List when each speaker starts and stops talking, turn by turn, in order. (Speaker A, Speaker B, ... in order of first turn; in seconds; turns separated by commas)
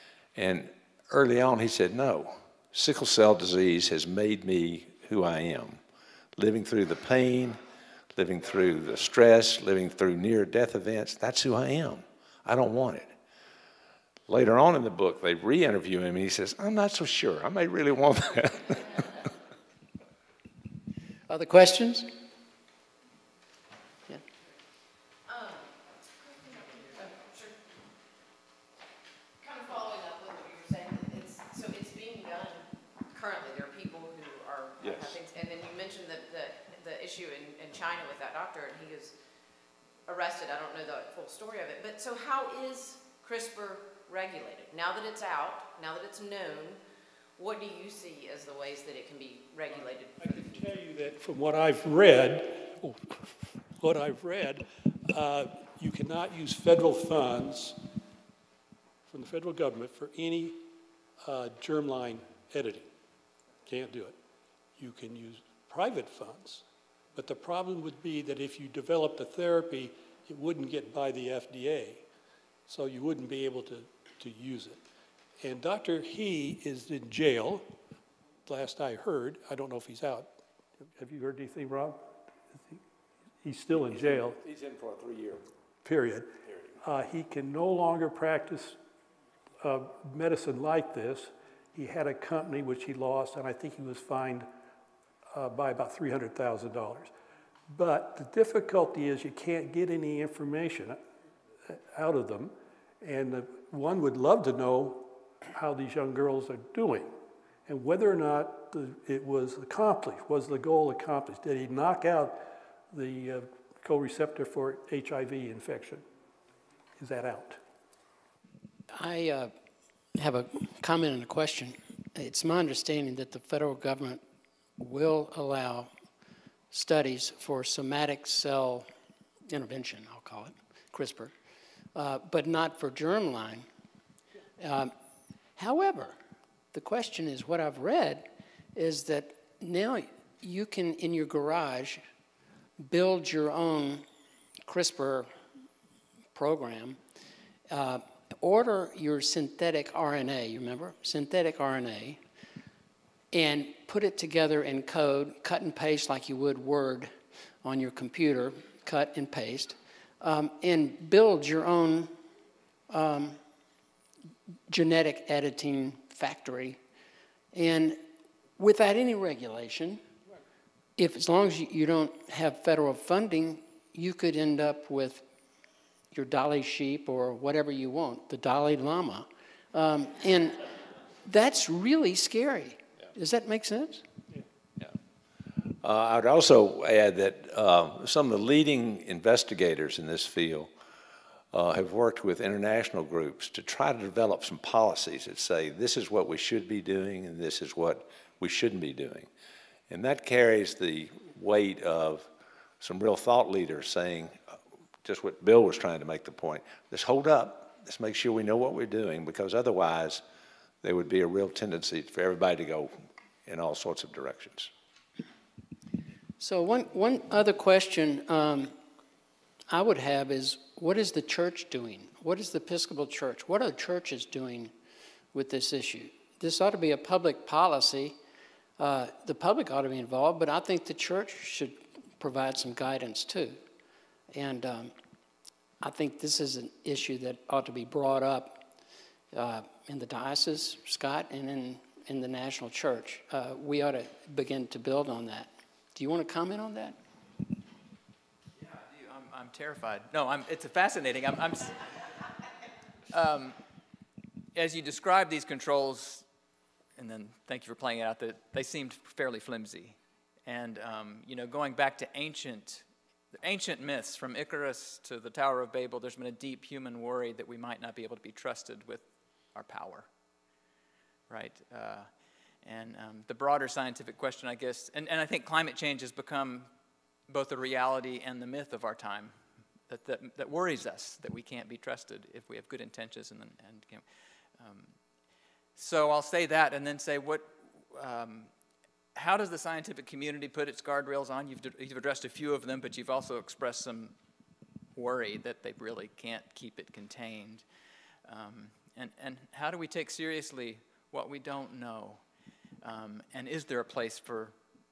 Speaker A: 0.3-5.8, Speaker A: 6.4-7.6, Speaker A: 8.1-13.1, Speaker A: 14.3-19.1, Speaker B: 21.3-22.1, Speaker C: 25.3-27.7, Speaker C: 29.4-39.1, Speaker A: 34.8-35.2, Speaker C: 40.1-46.8, Speaker C: 47.4-50.7, Speaker D: 50.2-57.8, Speaker D: 59.1-60.6, Speaker D: 61.2-62.9, Speaker D: 63.7-64.2, Speaker D: 64.8-72.0, Speaker D: 72.7-74.8, Speaker D: 75.4-77.7, Speaker D: 78.5-80.3, Speaker D: 80.9-82.0, Speaker D: 83.4-84.4, Speaker A: 83.8-85.4, Speaker D: 85.8-86.3, Speaker A: 86.5-86.8, Speaker D: 86.8-88.8, Speaker D: 89.6-94.5, Speaker D: 95.3-97.1, Speaker D: 97.7-101.0, Speaker D: 101.7-107.1, Speaker D: 107.7-116.0, Speaker D: 117.0-117.6, Speaker B: 118.9-119.5, Speaker B: 120.2-124.2, Speaker B: 124.8-125.9, Speaker B: 126.7-128.9, Speaker B: 129.5-131.3, Speaker B: 131.9-133.7, Speaker B: 134.6-134.9, Speaker B: 135.6-136.2, Speaker B: 136.7-142.0, Speaker B: 142.8-144.1, Speaker B: 144.7-145.3, Speaker B: 146.3-147.0, Speaker B: 147.7-152.2, Speaker B: 153.3-157.1, Speaker B: 157.6-162.1, Speaker B: 162.9-163.4, Speaker B: 164.7-166.8, Speaker B: 167.5-168.0, Speaker B: 168.6-170.0, Speaker B: 171.0-175.2, Speaker B: 176.1-180.6, Speaker B: 181.2-184.1, Speaker A: 185.8-190.7, Speaker A: 191.5-199.3, Speaker A: 199.9-202.3, Speaker A: 202.8-204.4, Speaker A: 205.0-210.2, Speaker A: 210.8-212.9, Speaker A: 213.5-214.7, Speaker B: 216.4-218.8, Speaker B: 219.7-224.7, Speaker B: 225.3-228.2, Speaker B: 228.8-233.6, Speaker B: 234.3-234.9, Speaker B: 235.8-238.7, Speaker B: 239.3-247.0, Speaker E: 248.6-251.9, Speaker E: 253.1-253.6, Speaker E: 254.6-256.2, Speaker E: 257.0-270.1, Speaker E: 271.3-272.1, Speaker E: 272.6-276.7, Speaker E: 277.3-279.4, Speaker E: 279.9-284.1, Speaker E: 284.6-284.9, Speaker E: 285.8-288.5, Speaker E: 289.1-294.2, Speaker E: 295.0-297.6, Speaker E: 298.3-302.2, Speaker E: 302.8-304.6